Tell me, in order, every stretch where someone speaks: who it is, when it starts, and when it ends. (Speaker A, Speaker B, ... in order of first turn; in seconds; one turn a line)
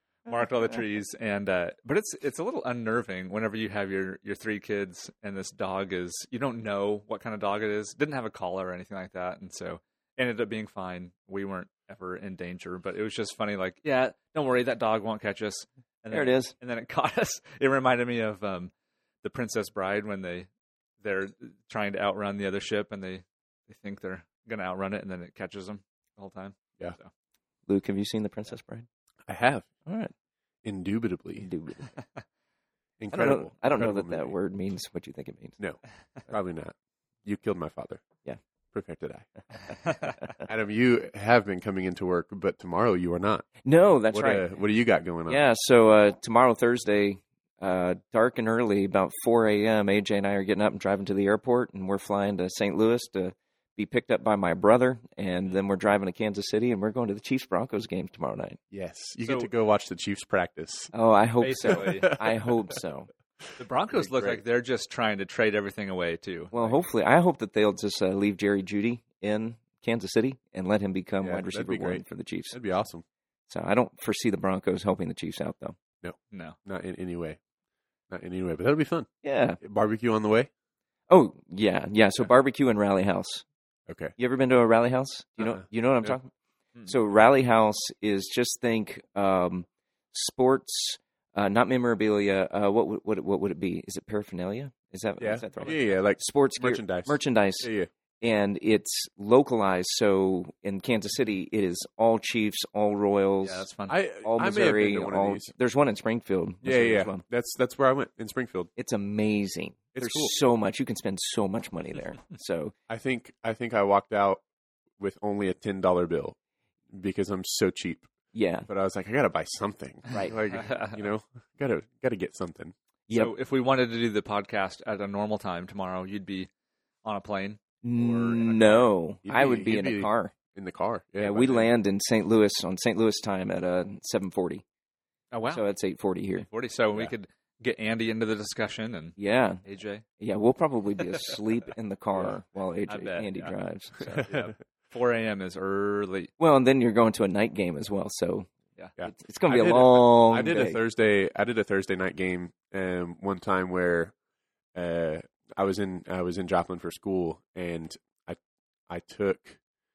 Speaker A: 0.2-18.7
Speaker B: 16.1-16.5
Speaker A: 19.2-20.5
Speaker A: 21.0-27.1
Speaker B: 27.7-28.9
Speaker C: 29.3-29.7
Speaker B: 29.9-30.1
Speaker C: 30.6-31.5
Speaker B: 31.4-31.9
Speaker C: 33.0-34.4
Speaker B: 33.1-35.6
Speaker C: 35.6-38.0
Speaker C: 38.7-39.3
Speaker C: 40.5-43.5
Speaker B: 43.6-44.5
Speaker C: 44.1-45.4
Speaker B: 45.3-58.6
Speaker C: 58.7-60.9
Speaker A: 59.2-59.5
Speaker B: 60.9-63.1
Speaker A: 61.4-62.2
Speaker C: 61.7-62.2
Speaker A: 63.6-66.8
Speaker C: 63.9-64.4
Speaker B: 66.5-72.6
Speaker C: 71.2-73.0
Speaker B: 73.5-75.8
Speaker C: 76.0-77.4
Speaker A: 76.3-76.6
Speaker C: 78.1-79.1
Speaker B: 79.2-79.6
Speaker C: 79.6-80.5
Speaker B: 81.1-83.4
Speaker C: 83.9-84.1
Speaker B: 84.2-86.3
Speaker C: 85.4-86.2
Speaker B: 86.8-103.7
Speaker C: 95.2-97.9
Speaker A: 95.6-96.0
Speaker A: 103.4-104.0
Speaker C: 103.9-105.5
Speaker B: 104.2-107.2
Speaker C: 106.6-108.7
Speaker B: 108.8-112.7
Speaker C: 109.9-110.3
Speaker C: 112.9-114.4
Speaker C: 115.0-116.3
Speaker C: 116.9-118.1
Speaker B: 118.3-118.7
Speaker C: 118.7-122.7
Speaker A: 120.1-121.0
Speaker A: 123.1-126.5
Speaker A: 127.0-128.9
Speaker B: 127.8-130.3
Speaker C: 129.2-131.7
Speaker B: 131.2-134.6
Speaker A: 135.3-135.6
Speaker B: 135.5-136.5
Speaker A: 136.5-140.0
Speaker B: 139.2-139.6
Speaker B: 140.2-144.3
Speaker A: 142.9-146.3
Speaker B: 146.4-148.5
Speaker C: 149.0-154.1
Speaker B: 149.0-150.8
Speaker C: 154.7-159.6